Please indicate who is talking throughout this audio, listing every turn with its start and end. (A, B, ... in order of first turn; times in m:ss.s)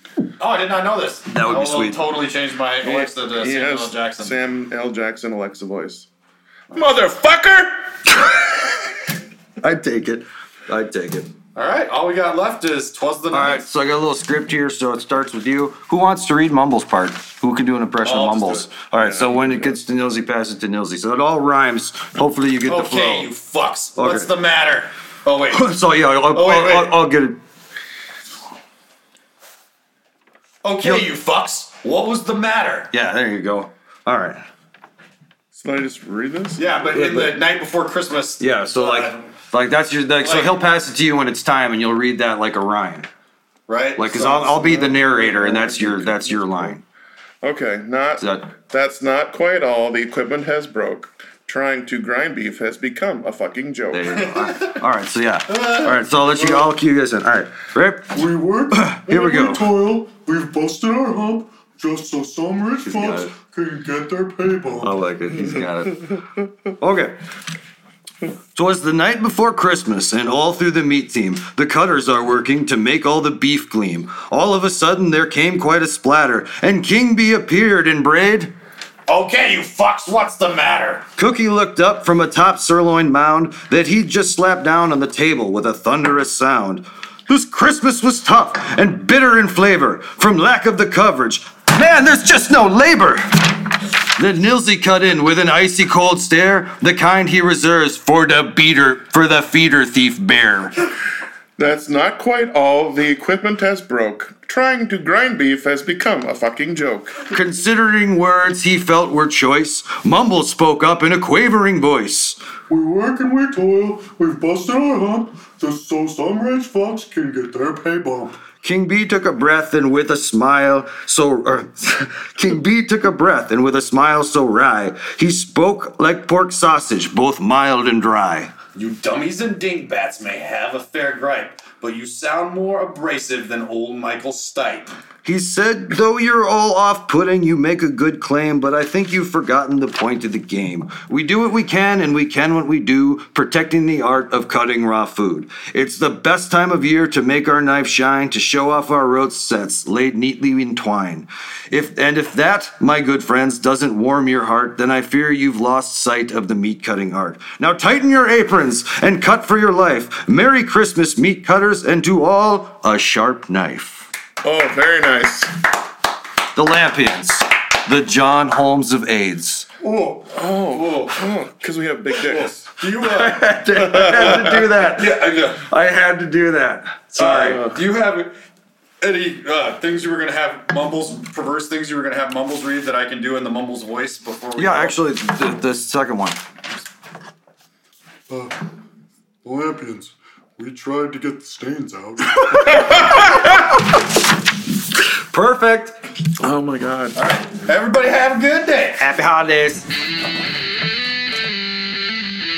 0:00.4-0:04.4 A
0:01.3-0:02.0 B
0:02.8-0:06.1 C
0:06.7-0:08.0 C
0:09.6-0:11.3 B
0:11.6-0:13.6 A
0:13.3-0:23.3 B
0:18.0-0:19.3 A
0:19.2-0:19.7 C
0:22.7-0:25.7 A
0:24.0-0:24.3 B
0:25.5-0:27.4 B
0:26.3-0:27.0 A
0:30.6-0:32.9 A
0:32.9-0:34.4 B
0:35.5-0:36.9 C
0:36.6-0:39.3 A
0:36.9-0:37.4 B
0:38.4-0:43.1 B
0:40.2-0:40.5 A
0:43.7-0:44.6 A
0:44.0-0:46.8 B
0:44.4-0:46.7 C
0:47.4-0:54.1 C
0:48.2-0:48.5 B
0:53.9-0:58.2 B
0:54.1-0:54.8 A
0:55.5-0:56.6 A
0:58.1-1:05.0 D
0:58.7-0:59.7 B
1:02.8-1:03.3 B
1:04.8-1:06.2 B
1:06.8-1:07.2 B
1:08.6-1:18.5 B
1:19.1-1:21.1 A
1:21.2-1:40.8 B
1:41.6-1:47.2 C
1:47.3-1:52.4 B
1:52.7-1:58.4 D
1:58.6-2:08.5 B
2:08.8-2:14.9 A
2:15.2-2:44.1 B
2:44.4-2:45.5 C
2:46.6-2:49.7 B
2:49.8-2:51.2 A
2:50.3-2:52.7 C
2:52.3-2:53.4 A
2:53.0-2:57.6 B
2:53.8-2:54.6 C
2:54.4-2:55.6 A
2:57.1-2:58.3 A
2:59.0-3:05.0 A
3:04.6-3:06.4 B
3:09.4-3:13.2 D
3:12.5-3:13.6 B
3:12.8-3:13.3 C
3:15.1-3:16.0 B
3:16.4-3:17.2 C
3:17.1-3:19.0 A
3:19.0-3:19.9 B